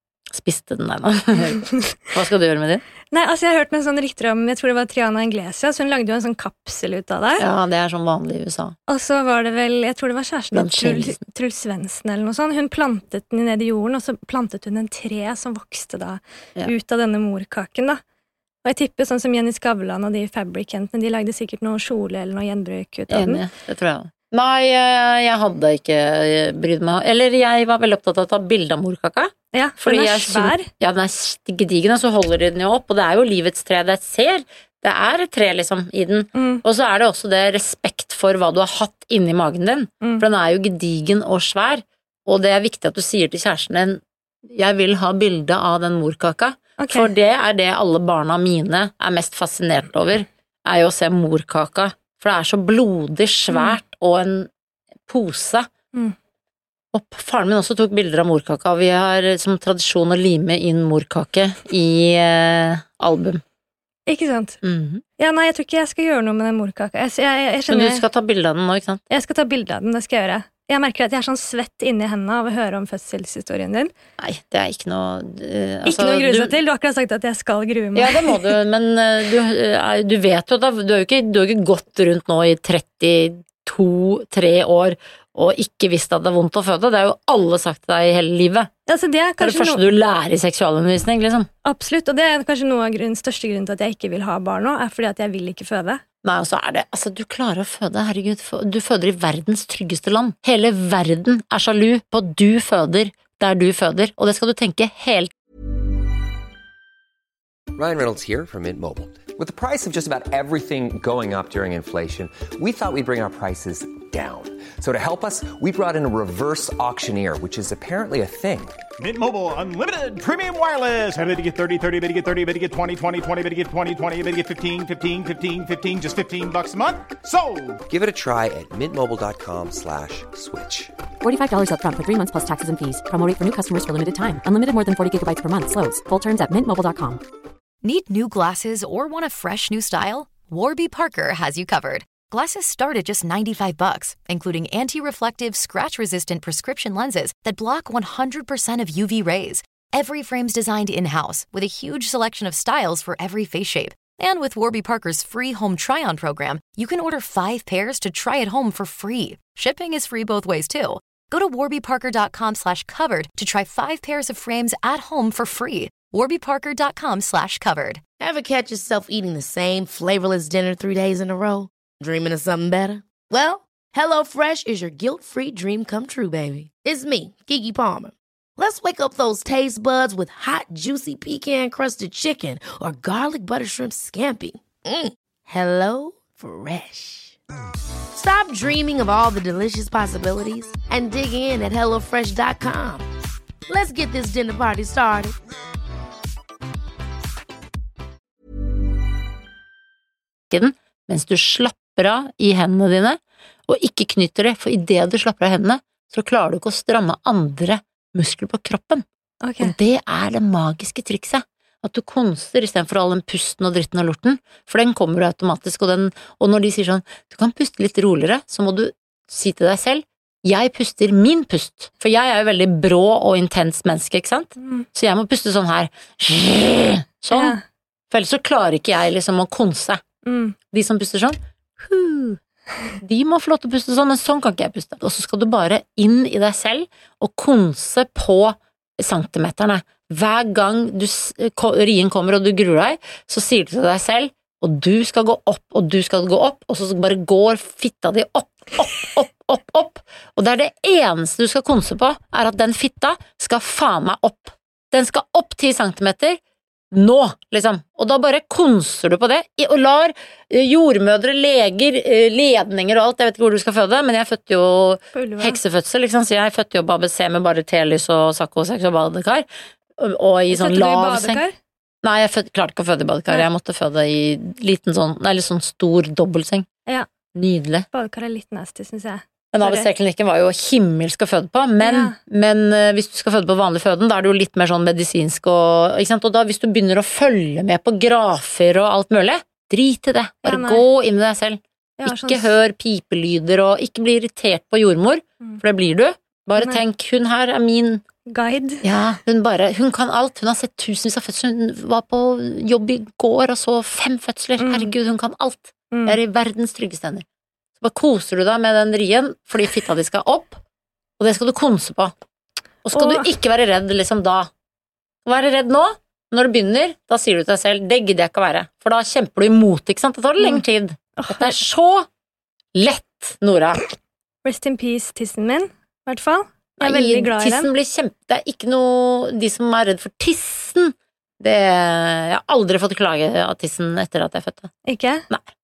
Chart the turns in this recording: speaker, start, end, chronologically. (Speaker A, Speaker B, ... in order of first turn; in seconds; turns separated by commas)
Speaker A: 0.3-2.8, Speaker B: 1.4-1.9, Speaker B: 3.1-7.4, Speaker A: 7.4-8.8, Speaker B: 8.9-18.0, Speaker A: 10.5-11.2, Speaker B: 18.6-23.4, Speaker A: 23.1-54.5, Speaker B: 29.5-30.7, Speaker B: 36.4-36.6, Speaker B: 46.8-47.1, Speaker B: 53.5-53.8, Speaker A: 55.1-55.7, Speaker A: 56.9-63.4, Speaker B: 64.1-64.6, Speaker A: 64.6-65.0, Speaker B: 65.2-68.0, Speaker A: 67.7-69.0, Speaker B: 69.1-73.9, Speaker A: 74.2-76.6, Speaker B: 75.9-78.5, Speaker A: 78.0-88.7, Speaker B: 88.9-90.0, Speaker A: 89.4-91.5, Speaker B: 91.6-96.0, Speaker A: 96.2-105.3, Speaker C: 107.8-118.8, Speaker D: 119.0-127.8, Speaker C: 127.9-130.9, Speaker E: 131.2-137.2, Speaker F: 137.8-168.0, Speaker G: 168.2-187.4, Speaker G: 188.2-193.1, Speaker G: 193.7-195.4, Speaker A: 200.5-209.1, Speaker B: 209.4-209.8, Speaker A: 209.6-227.6, Speaker B: 224.6-224.9, Speaker B: 227.3-227.6, Speaker A: 228.1-230.0, Speaker B: 230.2-230.6, Speaker A: 230.7-232.4, Speaker A: 233.0-256.4, Speaker A: 256.9-269.5, Speaker B: 265.1-265.6, Speaker A: 270.0-271.4, Speaker B: 270.5-271.5, Speaker A: 272.0-276.7, Speaker A: 277.4-277.9, Speaker B: 277.9-279.9, Speaker A: 279.5-298.0, Speaker B: 281.8-282.2, Speaker B: 290.4-290.8, Speaker B: 292.0-292.5, Speaker B: 298.3-298.8, Speaker A: 298.8-307.2, Speaker B: 304.6-304.9, Speaker B: 305.9-306.2, Speaker A: 307.8-310.6, Speaker A: 311.2-312.1, Speaker A: 312.8-314.5, Speaker B: 312.9-313.3, Speaker A: 315.3-322.1, Speaker B: 321.2-321.6, Speaker A: 322.8-323.9, Speaker B: 324.4-327.7, Speaker A: 326.8-334.7, Speaker B: 334.9-335.3